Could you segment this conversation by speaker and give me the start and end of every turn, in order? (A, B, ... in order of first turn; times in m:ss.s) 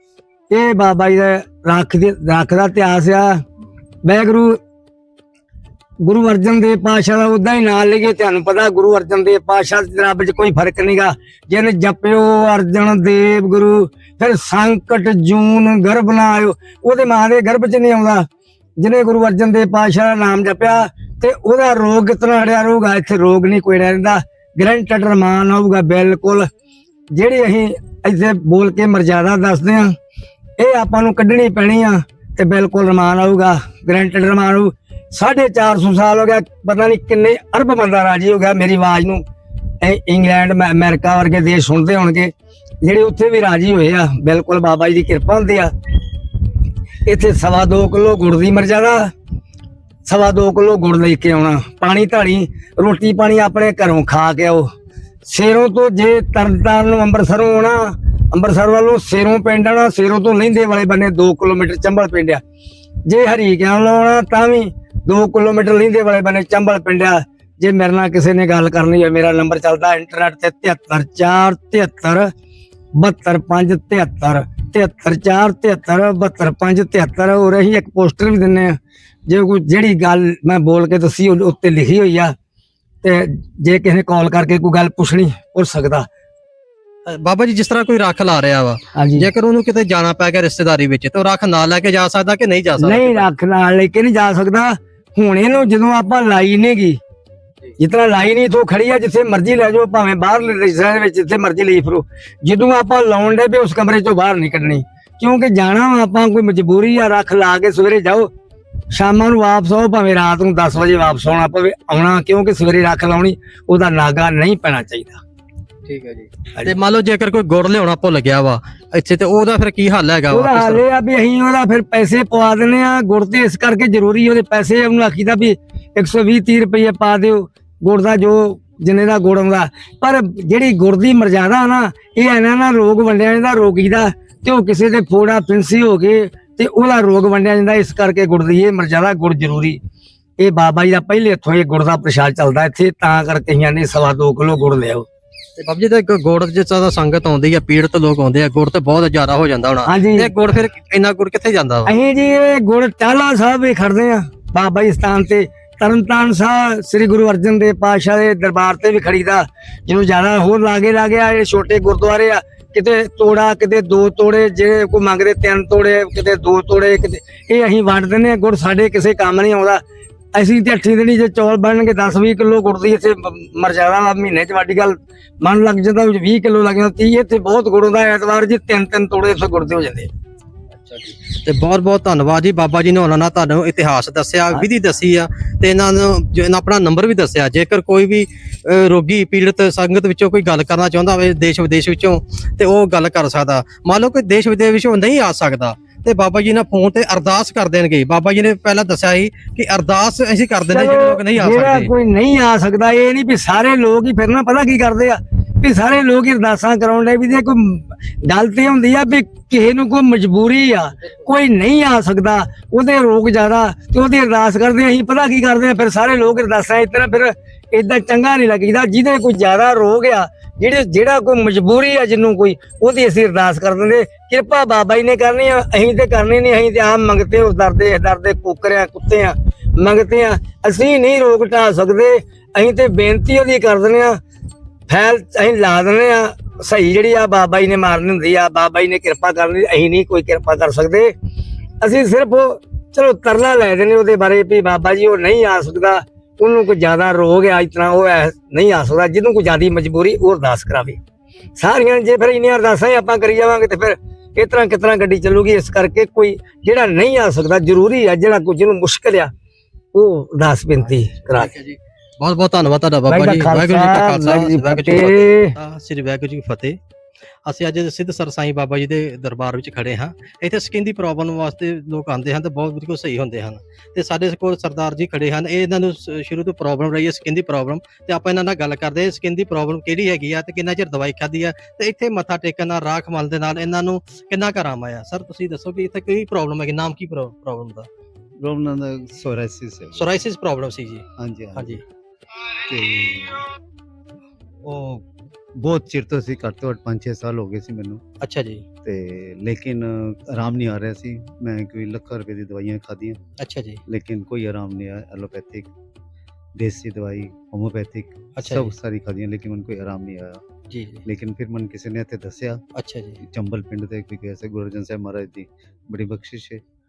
0:00.5-0:03.4 A
0:04.0-0:04.6 A
0:06.0-0:18.3 A
0:18.8-0:26.5 A
0:27.1-0:30.0 A
0:30.6-0:39.2 A
0:39.8-0:42.3 A
0:42.8-0:45.7 A
0:47.0-0:49.1 A
0:50.0-0:54.7 A
0:55.2-1:02.4 A
1:03.0-1:12.3 A
1:13.0-1:22.3 A
1:23.0-1:26.1 A
1:27.0-1:33.3 B
1:28.9-1:29.3 A
1:32.8-1:37.0 A
1:37.8-1:48.3 A
1:48.9-1:55.2 A
1:55.8-2:00.8 B
2:00.3-2:19.8 A
2:20.4-2:25.0 A
2:25.6-2:31.9 B
2:29.8-2:30.3 A
2:31.8-2:49.8 A
2:50.3-3:00.1 A
3:00.8-3:21.9 B
3:20.7-3:54.2 A
3:54.9-4:01.1 A
4:01.8-4:11.0 A
4:11.6-4:19.3 A
4:19.9-4:21.5 A
4:21.1-4:26.8 B
4:23.1-4:25.6 A
4:27.4-4:47.9 B
4:48.4-4:50.1 C
4:49.9-4:51.8 B
4:51.2-4:51.8 C
4:52.6-4:53.4 C
4:54.6-4:58.0 C
4:58.2-4:58.6 B
4:58.8-5:03.2 C
5:03.4-5:03.8 B
5:03.8-5:05.7 C
5:06.6-5:10.4 C
5:08.4-5:08.7 B
5:10.7-5:11.0 B
5:11.0-5:12.6 C
5:12.7-5:13.2 B
5:13.2-5:16.6 C